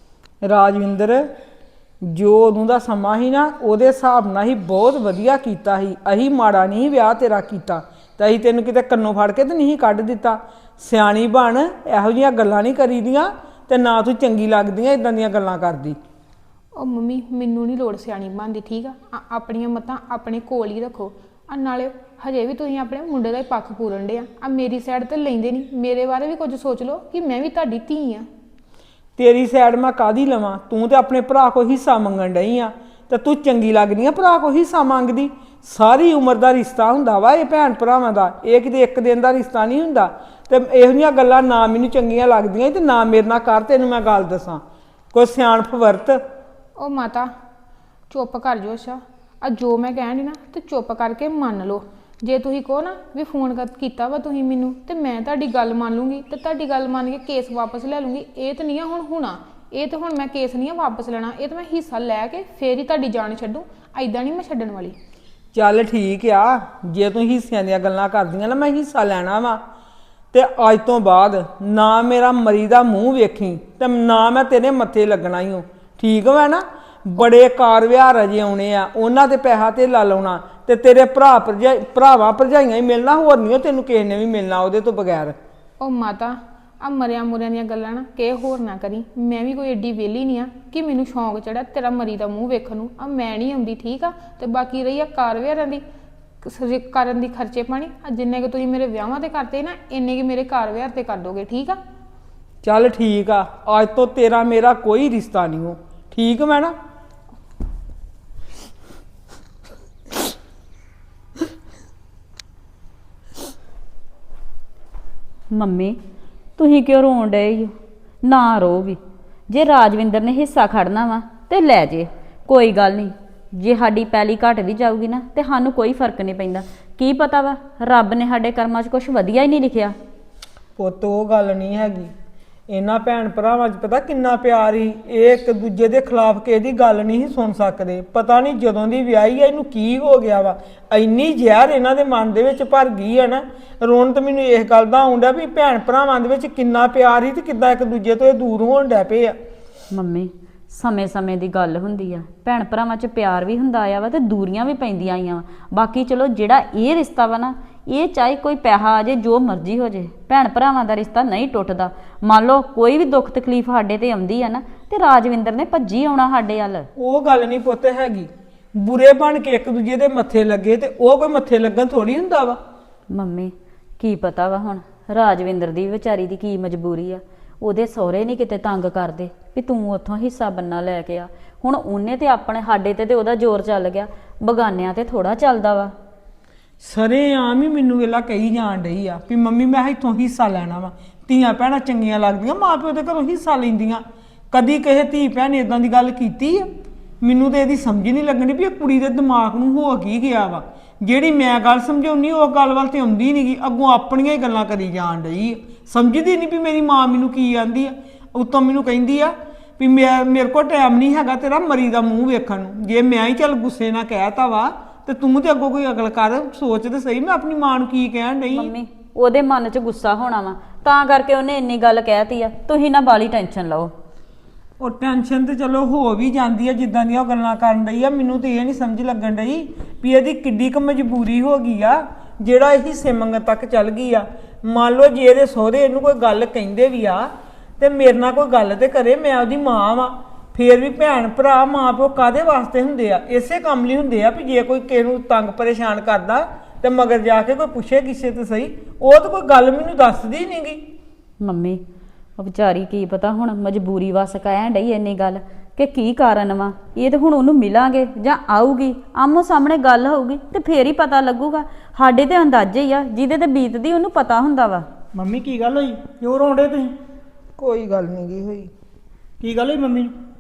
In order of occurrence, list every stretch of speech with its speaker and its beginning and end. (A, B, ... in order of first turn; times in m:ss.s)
0:00.4-0:01.2 A
0:02.0-0:16.0 A
0:16.8-0:28.3 B
0:29.2-0:44.6 A
0:45.1-0:46.2 A
0:46.8-0:47.3 B
0:48.1-1:05.0 B
1:05.5-1:09.6 A
1:10.3-1:25.4 A
1:25.8-1:35.8 B
1:36.4-1:41.8 B
1:42.6-1:46.7 A
1:55.5-1:56.0 C
1:56.6-2:10.0 C
2:10.8-2:12.1 A
2:12.7-2:29.4 A
2:29.9-2:46.9 C
2:47.0-2:52.6 A
2:53.1-3:05.9 C
3:06.8-3:16.7 A
3:17.2-3:38.7 A
3:38.5-3:43.9 C
3:44.8-3:57.3 A
3:57.8-4:10.8 A
4:11.4-4:11.8 C
4:12.4-4:24.9 C
4:25.1-4:26.9 D
4:27.6-4:28.7 A
4:29.4-4:30.1 D